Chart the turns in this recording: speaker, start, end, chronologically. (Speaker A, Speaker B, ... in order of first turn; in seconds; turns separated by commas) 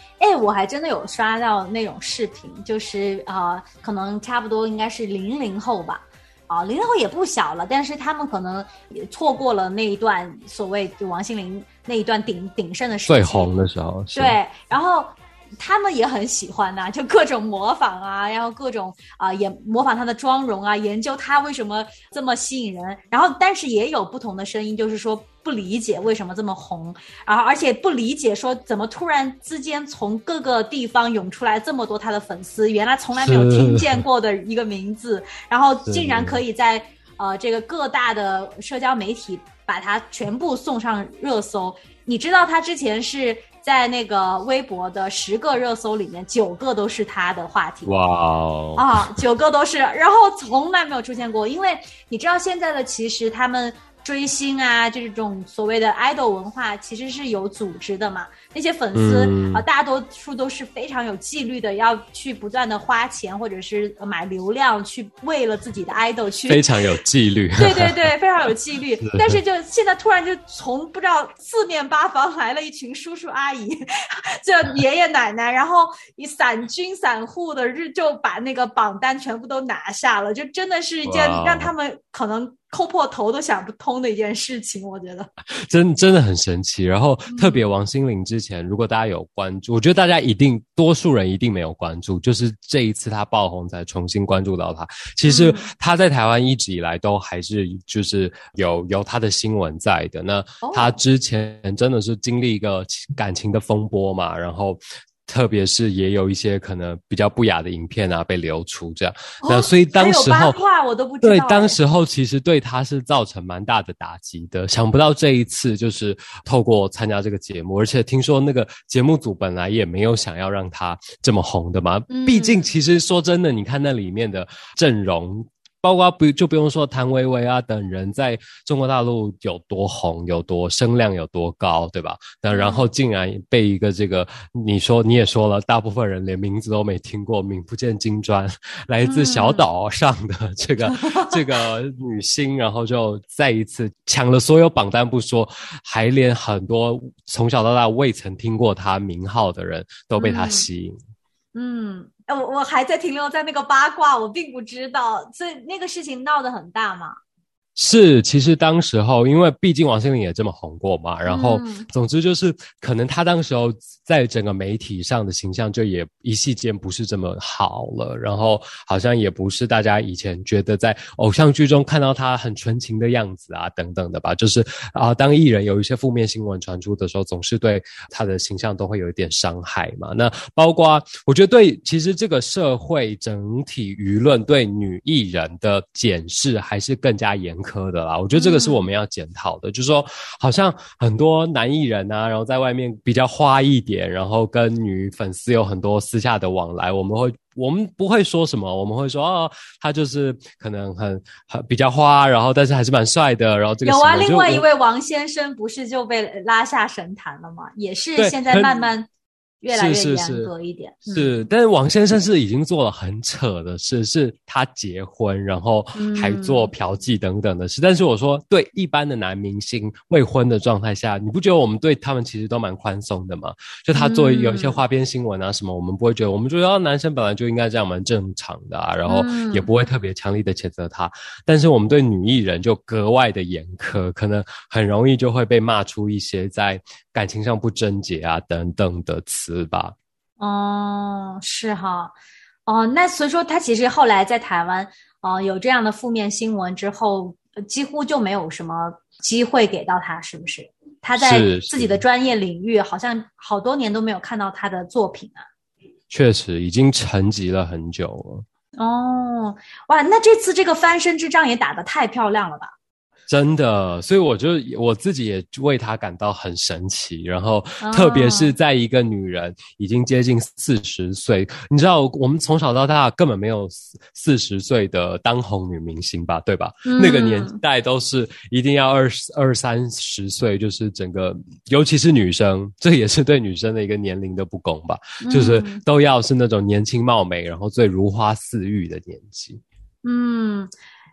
Speaker A: 0.2-13.6, Speaker B: 13.1-14.3, Speaker A: 14.1-47.9, Speaker B: 33.1-34.0, Speaker B: 35.9-36.4, Speaker B: 47.9-49.1, Speaker A: 48.8-66.6, Speaker B: 58.9-59.6, Speaker B: 66.5-68.1, Speaker A: 67.6-85.3, Speaker B: 69.0-69.4, Speaker B: 81.0-81.7, Speaker B: 85.6-110.6, Speaker A: 87.3-87.6, Speaker A: 95.2-95.7, Speaker A: 100.6-100.9, Speaker A: 109.4-111.8, Speaker B: 111.2-151.0, Speaker A: 122.1-122.6, Speaker A: 132.5-132.9, Speaker A: 139.1-139.6, Speaker A: 140.9-141.4, Speaker A: 150.2-150.7, Speaker A: 151.5-157.2, Speaker B: 157.8-204.6, Speaker A: 161.2-161.9, Speaker A: 188.3-188.8, Speaker A: 203.8-209.1, Speaker B: 208.2-208.9, Speaker A: 209.6-211.3, Speaker B: 209.7-210.5, Speaker B: 211.1-239.9, Speaker A: 215.9-216.7, Speaker A: 223.9-224.8, Speaker A: 229.1-229.7, Speaker A: 240.4-242.1, Speaker A: 242.7-255.4, Speaker B: 251.2-252.0, Speaker B: 256.1-258.4, Speaker A: 258.8-262.7, Speaker B: 263.3-289.6, Speaker A: 267.8-268.5, Speaker A: 276.9-277.6, Speaker A: 285.2-285.8, Speaker A: 290.0-290.7